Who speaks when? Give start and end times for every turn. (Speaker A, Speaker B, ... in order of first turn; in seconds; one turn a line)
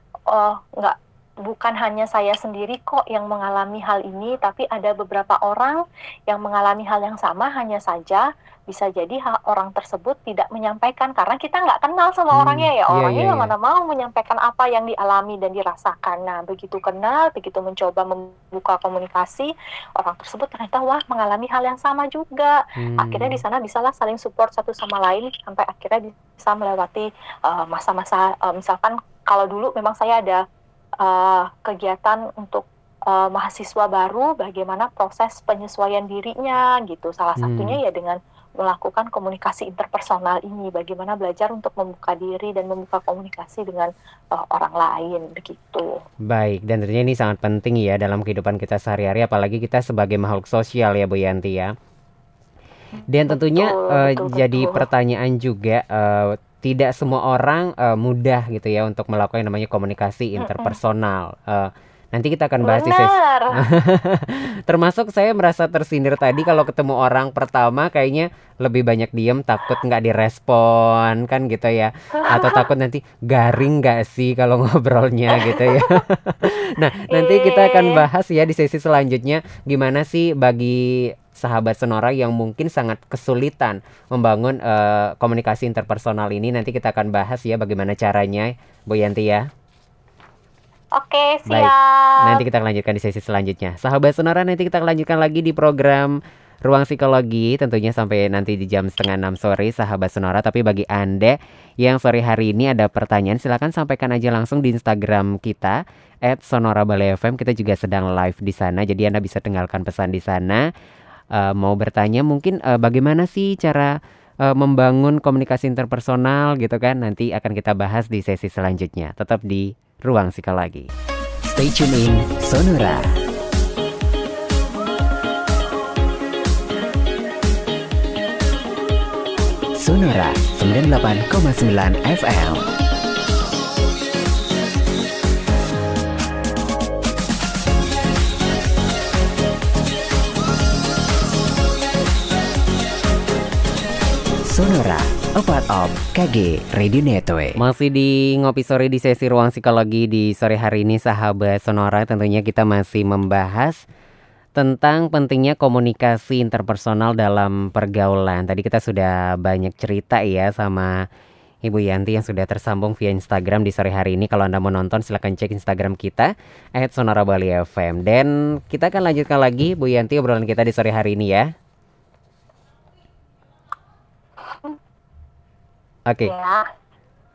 Speaker A: 0.3-30.4
Speaker B: 12.3-13.5
Speaker B: 22.8-23.4
Speaker A: 31.0-45.9
Speaker B: 37.4-37.8
Speaker B: 46.3-51.7
Speaker A: 53.0-54.8
Speaker B: 53.1-89.5
Speaker A: 60.4-60.8
Speaker A: 62.6-63.6
Speaker A: 72.2-72.6
Speaker A: 75.5-75.8
Speaker A: 77.1-78.0
Speaker A: 91.0-92.3
Speaker B: 91.5-110.6
Speaker B: 111.3-120.9
Speaker C: 121.5-123.1
Speaker C: 129.8-132.6
Speaker C: 144.5-147.6
Speaker B: 147.6-153.8
Speaker B: 154.6-160.9
Speaker B: 161.7-171.4
Speaker A: 174.5-174.8
Speaker A: 176.2-176.6